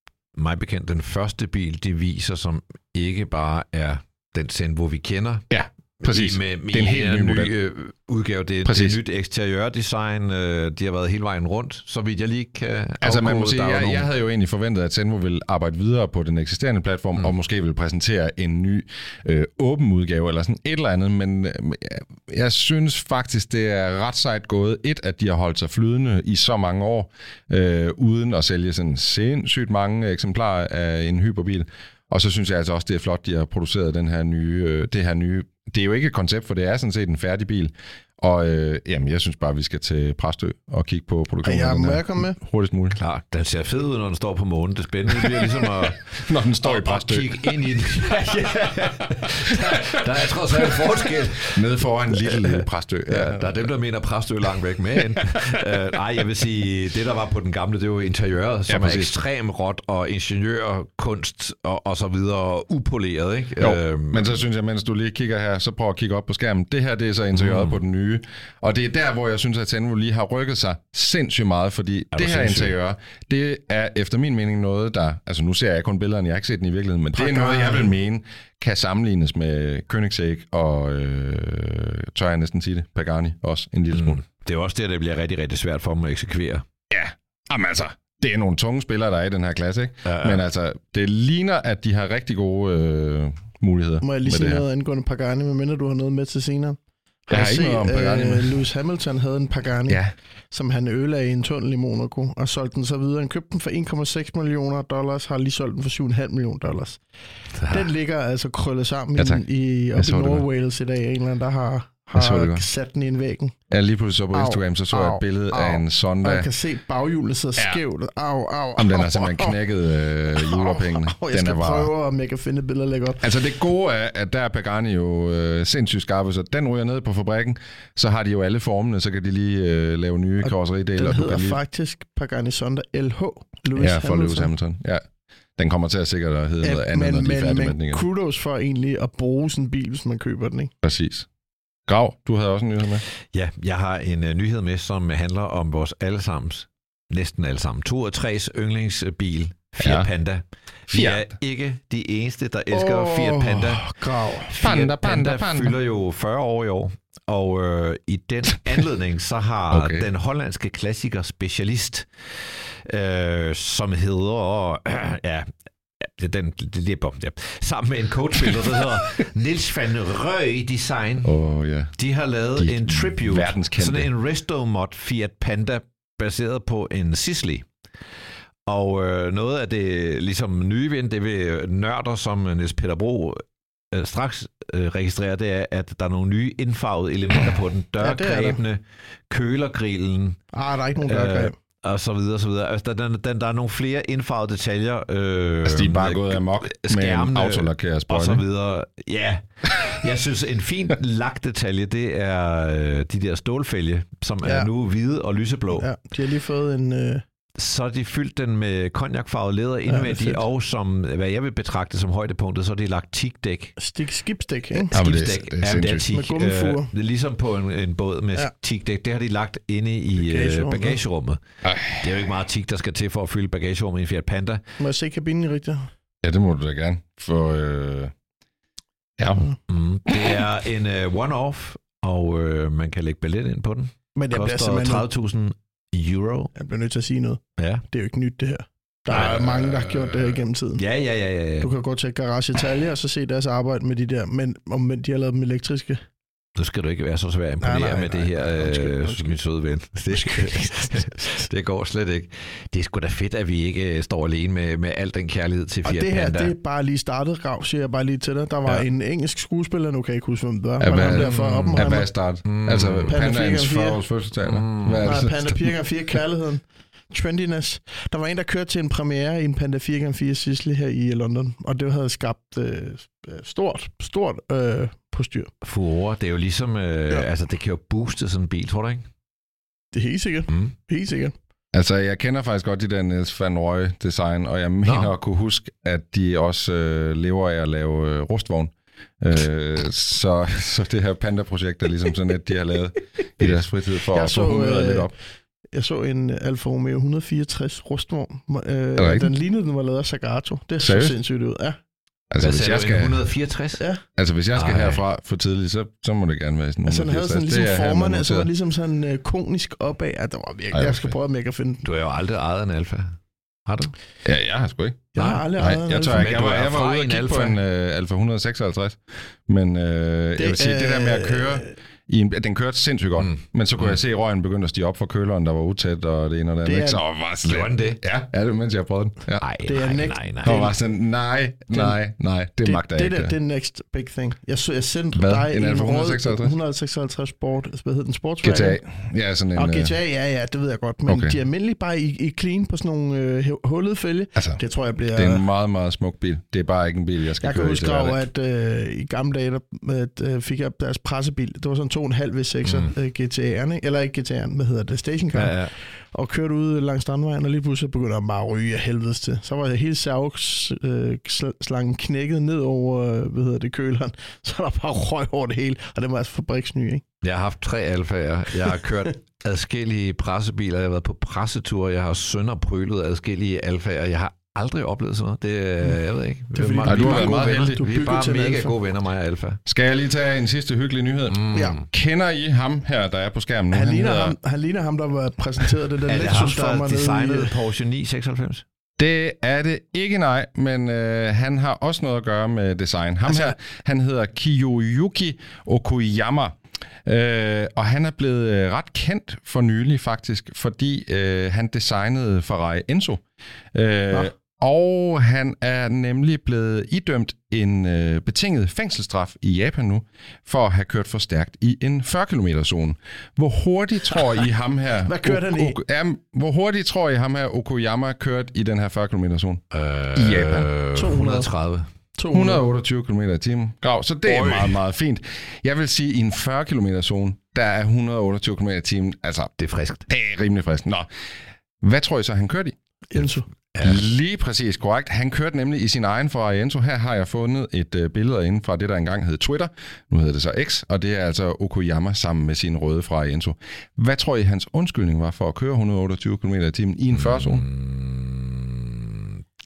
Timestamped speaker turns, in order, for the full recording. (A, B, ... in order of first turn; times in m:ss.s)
0:00.4-0:05.5 A
0:05.5-0:07.5 B
0:06.0-0:14.1 A
0:08.6-0:09.0 B
0:13.0-0:43.0 B
0:41.4-0:42.4 C
0:43.0-1:04.4 A
0:45.1-0:47.8 B
0:49.3-0:50.0 B
0:51.5-0:53.6 B
0:55.0-0:55.6 B
0:58.7-0:59.2 B
1:03.6-1:24.2 B
1:07.4-1:07.8 A
1:12.1-1:12.7 A
1:17.2-1:17.9 C
1:23.9-1:26.6 A
1:26.9-1:34.6 B
1:30.0-1:30.4 A
1:34.0-1:47.0 C
1:37.3-1:38.6 B
1:39.9-1:40.1 B
1:47.6-1:47.9 A
1:47.7-1:53.6 C
1:49.2-1:50.4 B
1:52.1-1:52.7 B
1:53.7-1:56.5 B
1:54.3-1:59.6 C
1:58.8-2:01.9 B
2:00.3-2:03.2 C
2:03.2-2:11.6 B
2:10.4-2:14.5 C
2:13.8-2:15.0 B
2:15.6-2:18.1 B
2:16.6-2:20.7 C
2:20.8-2:21.3 B
2:21.9-2:23.0 B
2:23.3-2:33.8 A
2:29.8-2:30.1 B
2:30.9-2:31.3 B
2:32.7-2:34.5 C
2:34.5-2:51.3 A
2:34.5-2:35.8 B
2:39.7-2:40.1 B
2:51.2-2:51.9 B
2:52.0-2:57.7 A
2:52.6-2:54.1 B
2:58.7-3:03.4 A
3:03.9-3:10.4 A
3:08.0-3:08.6 C
3:10.5-3:11.5 C
3:11.0-3:25.9 A
3:15.6-3:18.4 B
3:24.4-3:24.7 C
3:25.7-3:27.2 C
3:27.6-3:33.8 A
3:29.9-3:30.4 C
3:33.8-3:35.0 C
3:34.9-3:44.6 A
3:34.9-3:36.1 B
3:36.1-3:36.9 C
3:40.2-3:41.0 C
3:41.6-3:42.2 B
3:44.8-3:45.9 C
3:46.2-3:48.1 B
3:49.2-3:49.5 B
3:49.7-3:56.5 A
3:54.2-3:55.1 C
3:56.5-4:00.8 C
3:57.6-3:57.8 A
3:59.1-4:01.7 A
4:01.6-4:06.0 C
4:06.6-4:16.5 A
4:07.6-4:09.4 C
4:10.1-4:11.5 C
4:15.9-4:22.1 C
4:20.8-4:25.7 B
4:20.9-4:21.9 A
4:22.4-4:23.2 A
4:23.1-4:24.0 C
4:24.4-4:25.2 A
4:25.0-4:35.5 C
4:35.6-4:39.1 A
4:39.9-4:41.4 C
4:41.7-4:55.1 B
4:44.8-4:45.1 A
4:54.1-4:55.1 C
4:55.7-5:01.8 C
4:59.0-4:59.3 B
5:00.8-5:01.1 B
5:02.3-5:03.2 B
5:02.4-5:03.8 A
5:04.2-5:08.5 B
5:04.6-5:05.0 A
5:06.9-5:11.8 C
5:10.7-5:11.1 B
5:11.8-5:14.0 A
5:14.2-5:29.4 B
5:15.2-5:16.3 C
5:15.2-5:15.4 A
5:16.0-5:17.6 A
5:20.4-5:21.7 C
5:23.2-5:24.0 A
5:26.6-5:27.0 C
5:27.4-5:28.0 A
5:29.4-5:30.6 A
5:29.6-5:30.8 C
5:30.4-5:33.4 B
5:31.7-5:32.0 C
5:32.6-5:38.8 C
5:35.1-5:36.6 B
5:38.4-5:39.9 B
5:39.6-5:45.4 C
5:41.1-5:41.4 B
5:44.4-5:44.6 B
5:45.2-5:48.2 B
5:47.4-6:07.0 C
5:52.6-5:52.9 A
5:55.3-5:55.7 A
6:07.2-6:19.6 A
6:16.5-6:18.8 C
6:16.8-6:17.8 B
6:19.7-6:24.4 B
6:21.3-6:21.9 A
6:23.7-6:27.5 C
6:26.1-6:28.6 A
6:29.0-6:43.2 B
6:33.3-6:33.6 C
6:43.7-6:59.6 B
6:55.0-6:55.8 C
6:59.7-7:01.9 A
7:00.2-7:00.7 B
7:01.0-7:01.5 C
7:02.2-7:02.6 C
7:02.3-7:09.5 B
7:04.3-7:04.7 A
7:09.6-7:10.0 A
7:10.1-7:11.1 B
7:11.8-7:12.8 B
7:13.1-7:13.5 C
7:13.7-7:14.0 A
7:13.8-7:27.6 B
7:27.1-7:29.4 A